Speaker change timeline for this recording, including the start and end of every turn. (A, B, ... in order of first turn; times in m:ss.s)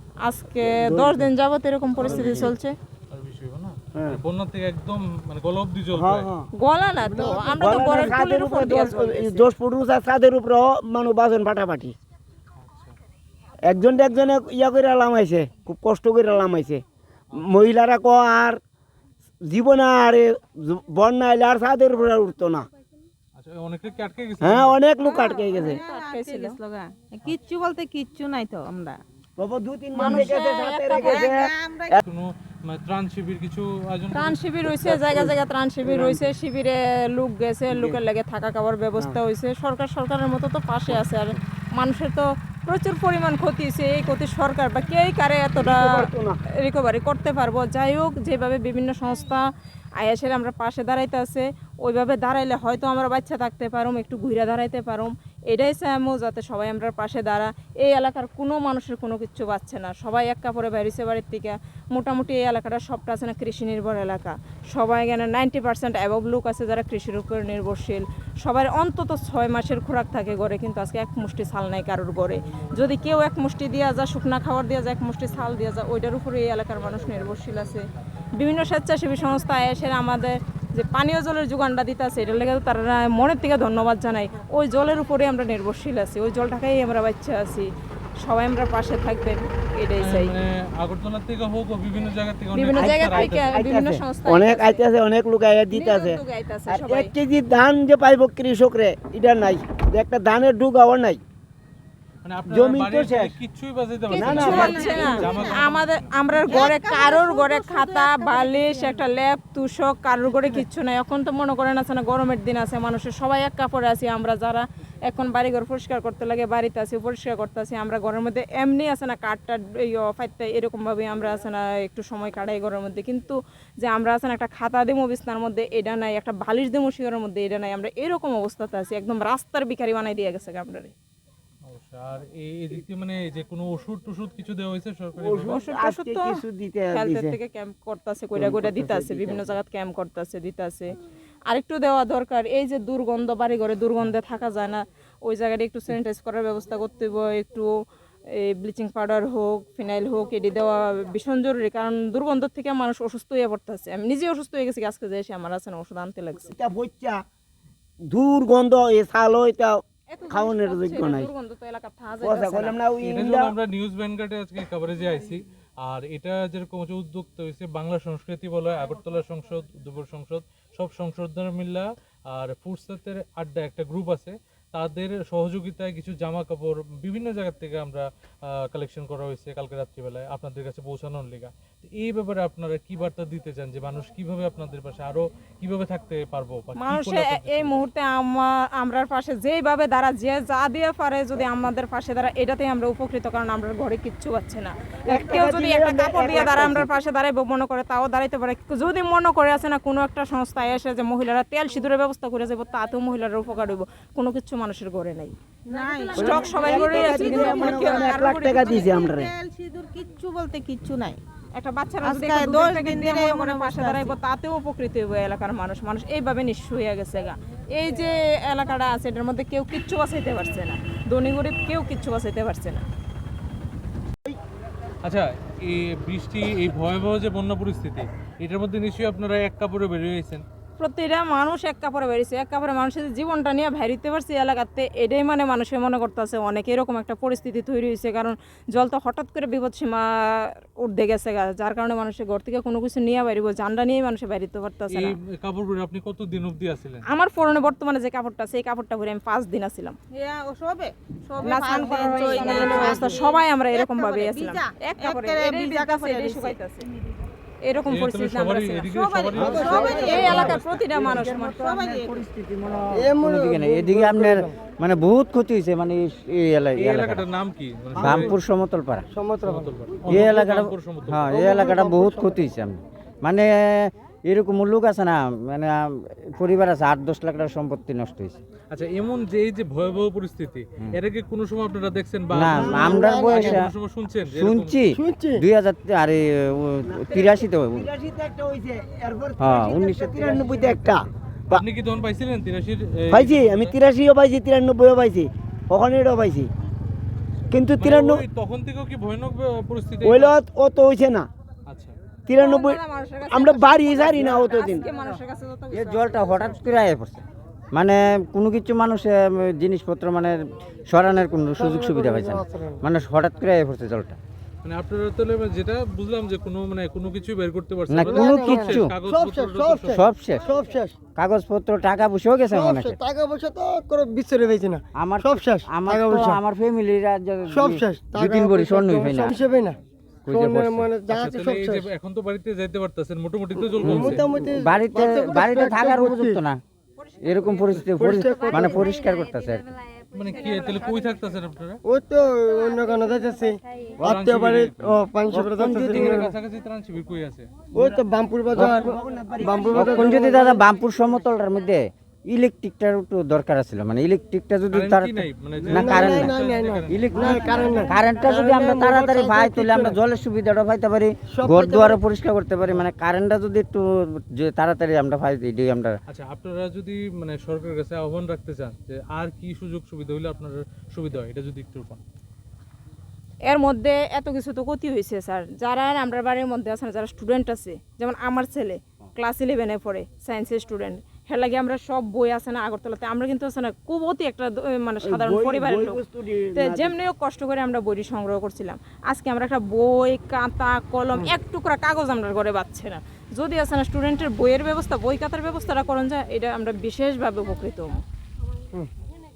0:00.2-0:02.8 A
0:00.6-0:01.3 B
0:02.0-0:02.5 B
0:03.1-0:06.3 C
0:04.0-0:04.2 B
0:05.9-0:06.5 B
0:06.6-0:09.5 A
0:07.0-0:08.2 D
0:07.5-0:11.9 B
0:12.6-0:13.0 C
0:13.6-0:16.8 B
0:17.4-0:18.6 B
0:19.4-0:22.6 B
0:23.3-0:24.8 C
0:24.4-0:25.8 B
0:25.0-0:29.0 E
0:25.5-0:26.6 A
0:29.4-0:32.0 B
0:29.9-0:31.3 A
0:30.9-0:32.0 E
0:32.0-0:34.4 C
0:34.1-0:46.1 A
0:34.6-0:36.3 B
0:37.7-0:38.0 B
0:45.6-0:46.4 B
0:46.6-0:49.4 A
0:50.0-1:17.8 A
1:18.4-1:30.3 A
1:30.0-1:33.4 C
1:32.5-1:34.8 A
1:32.7-1:41.2 B
1:35.7-1:37.1 A
1:42.2-1:46.6 C
1:42.5-1:43.4 B
1:44.1-1:45.3 B
1:44.2-2:10.9 A
1:44.2-1:45.6 E
1:46.3-1:49.1 E
2:11.6-2:15.6 C
2:15.2-2:17.4 B
2:15.5-2:16.3 A
2:16.9-2:21.0 A
2:18.3-2:19.6 B
2:21.5-2:27.7 A
2:28.3-2:36.5 A
2:36.4-2:37.2 B
2:38.1-2:39.8 B
2:40.1-2:42.8 A
2:40.3-2:41.3 B
2:42.2-2:43.5 B
2:43.0-3:07.8 C
3:06.8-3:28.9 A
3:15.1-3:16.9 B
3:25.7-3:31.2 E
3:26.2-3:29.3 B
3:31.5-3:42.8 A
3:32.0-3:34.2 E
3:45.0-3:50.4 C
3:50.8-4:05.1 A
4:04.9-4:07.0 C
4:07.1-4:10.0 A
4:10.1-4:16.6 E
4:11.4-4:16.8 A
4:17.6-4:18.9 A
4:17.9-4:21.1 C
4:18.9-4:20.4 E
4:19.3-4:27.2 F
4:19.4-4:19.8 D
4:19.7-4:21.7 A
4:21.1-4:22.2 E
4:22.9-4:24.5 D
4:26.8-4:28.3 C
4:28.0-4:29.0 F
4:28.0-4:28.3 B
4:29.1-4:29.7 D
4:29.4-4:31.3 C
4:30.1-4:38.4 F
4:31.3-4:32.4 D
4:38.7-4:44.8 C
4:42.3-4:43.7 F
4:42.5-4:43.0 B
4:42.8-4:43.6 D
4:44.2-4:47.9 F
4:44.9-4:45.4 D
4:46.9-4:51.6 B
4:49.4-4:50.4 F
4:51.5-4:53.7 C
4:53.1-4:56.5 B
4:57.5-4:58.2 B
4:57.8-5:00.4 C
5:00.0-5:01.3 B
5:01.7-5:01.9 C
5:02.3-5:04.9 B
5:02.4-5:06.6 A
5:05.7-5:14.2 F
5:11.5-5:12.8 D
5:14.6-5:20.0 C
5:17.9-5:18.9 F
5:18.0-5:21.0 D
5:19.9-5:20.5 F
5:21.2-5:23.0 F
5:22.5-5:26.4 D
5:25.0-5:29.4 F
5:27.5-5:29.8 D
5:30.2-5:30.9 F
5:30.3-5:31.9 D
5:31.1-5:34.2 C
5:33.7-5:36.4 D
5:33.8-5:36.6 F
5:37.2-5:39.6 F
5:37.8-5:38.9 D
5:40.1-5:41.8 C
5:40.3-5:41.1 A
5:41.8-5:46.3 D
5:44.0-5:45.0 C
5:45.3-5:46.2 F
5:45.7-5:47.5 C
5:47.7-5:50.6 D
5:48.5-5:50.3 B
5:49.7-5:56.4 F
5:54.7-5:57.3 C
5:55.7-6:00.0 D
5:56.9-6:06.0 F
6:01.3-6:02.0 D
6:06.1-6:12.0 C
6:13.5-6:26.0 A
6:25.0-6:26.9 B
6:26.5-6:38.0 A